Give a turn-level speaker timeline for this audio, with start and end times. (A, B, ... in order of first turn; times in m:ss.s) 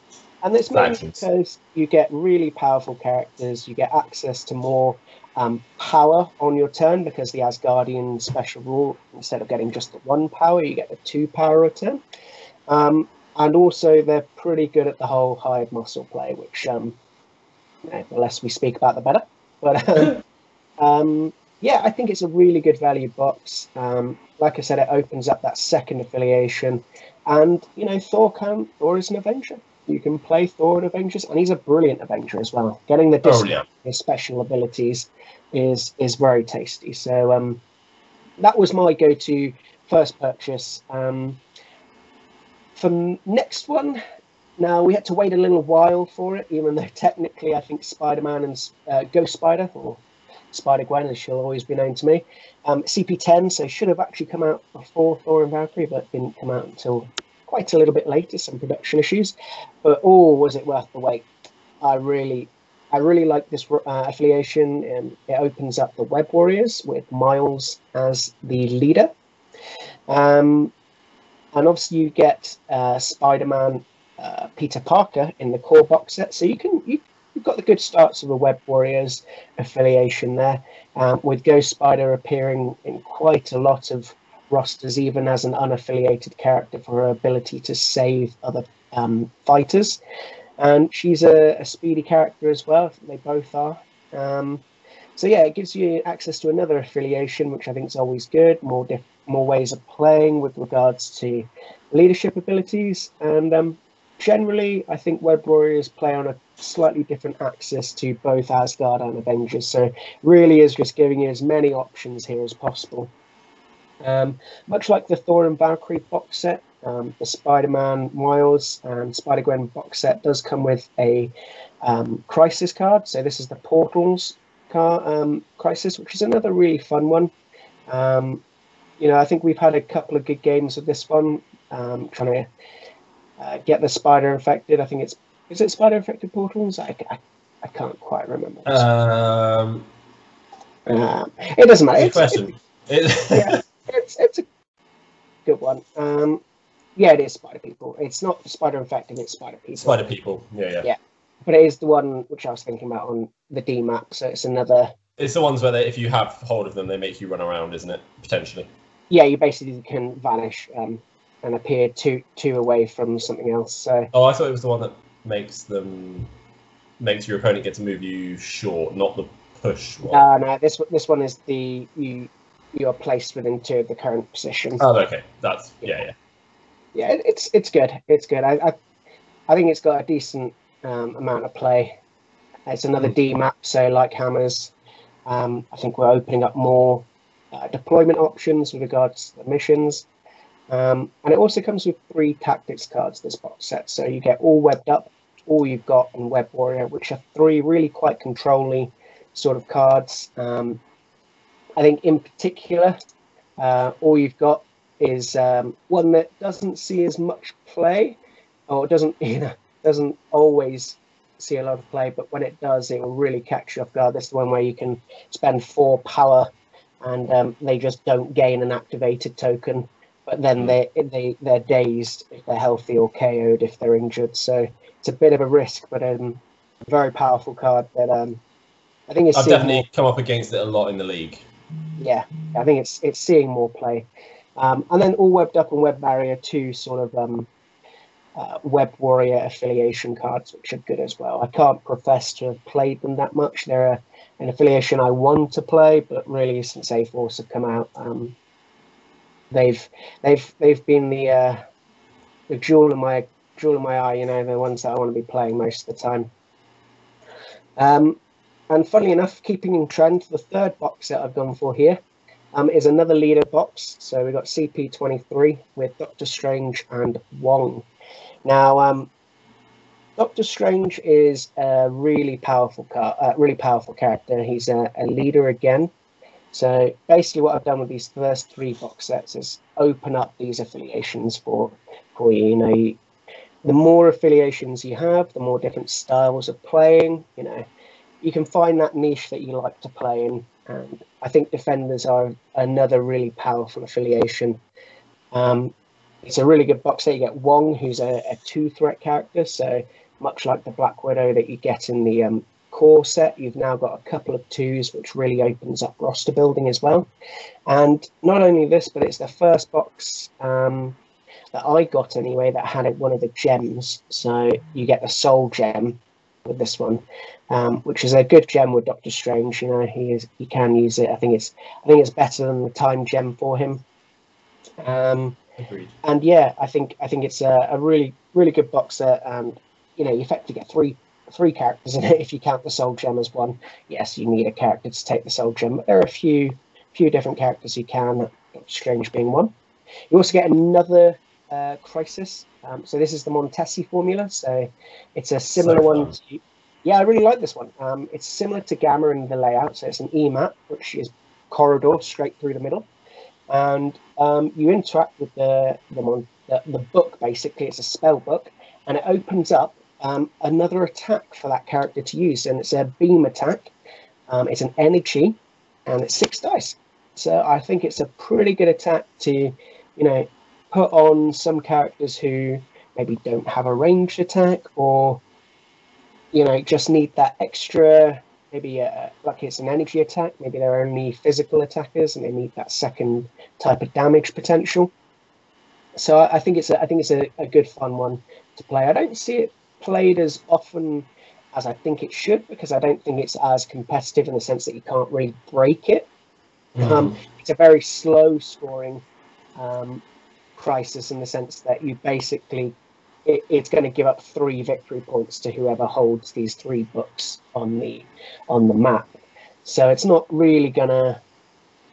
0:00.4-0:12.0 A
0:00.7-0:01.2 B
0:12.7-0:17.0 A
0:17.8-0:20.2 A
0:20.8-0:37.6 A
0:33.2-0:33.6 B
0:38.4-0:41.4 A
0:42.8-0:44.0 A
0:44.6-1:01.2 A
1:01.8-1:09.1 A
1:10.1-1:10.7 A
1:11.5-1:30.0 A
1:30.6-1:34.6 A
1:35.2-1:53.1 A
1:54.0-2:01.3 A
2:01.8-2:07.3 A
2:07.9-2:08.4 A
2:09.0-2:12.5 A
2:13.4-2:18.8 A
2:18.6-2:19.8 B
2:20.9-2:22.5 A
2:22.0-2:23.6 B
2:23.3-2:24.4 A
2:25.4-2:26.4 A
2:27.0-2:30.1 A
2:29.8-2:30.9 B
2:30.8-2:34.9 A
2:35.2-2:38.7 B
2:39.1-2:44.1 A
2:44.1-2:46.3 B
2:47.0-2:50.2 B
2:50.1-2:54.8 A
2:54.8-2:56.1 B
2:56.9-2:58.8 A
2:59.5-3:01.9 A
3:02.7-3:04.7 A
3:05.3-3:10.0 A
3:10.7-3:20.8 A
3:21.8-3:23.0 A
3:23.6-3:28.2 A
3:28.7-3:36.5 A
3:37.0-3:48.4 A
3:49.1-3:49.8 A
3:49.3-3:51.4 B
3:52.0-3:57.5 A
3:58.4-4:08.3 A
4:09.5-4:11.6 A
4:12.5-4:16.3 A
4:17.8-4:18.2 A
4:18.7-4:22.0 A
4:22.5-4:27.8 A
4:28.4-4:29.1 A
4:30.2-4:35.9 A
4:36.5-4:43.0 A
4:43.6-4:47.6 A
4:48.2-4:54.6 A
4:55.3-4:55.7 A
4:56.2-5:07.1 A
5:07.7-5:11.0 A
5:11.5-5:23.8 A
5:24.8-5:25.4 A
5:25.6-5:25.9 B
5:26.0-5:39.5 A
5:40.1-5:52.9 A
5:45.6-5:46.1 B
5:53.5-6:03.7 A
6:04.3-6:05.4 A
6:05.9-6:15.2 A
6:16.3-6:24.9 A
6:26.0-6:36.1 A
6:36.7-6:37.1 B
6:36.8-6:39.0 A
6:39.6-6:40.0 A
6:40.6-6:42.7 A
6:43.2-6:49.1 A
6:49.6-6:51.2 A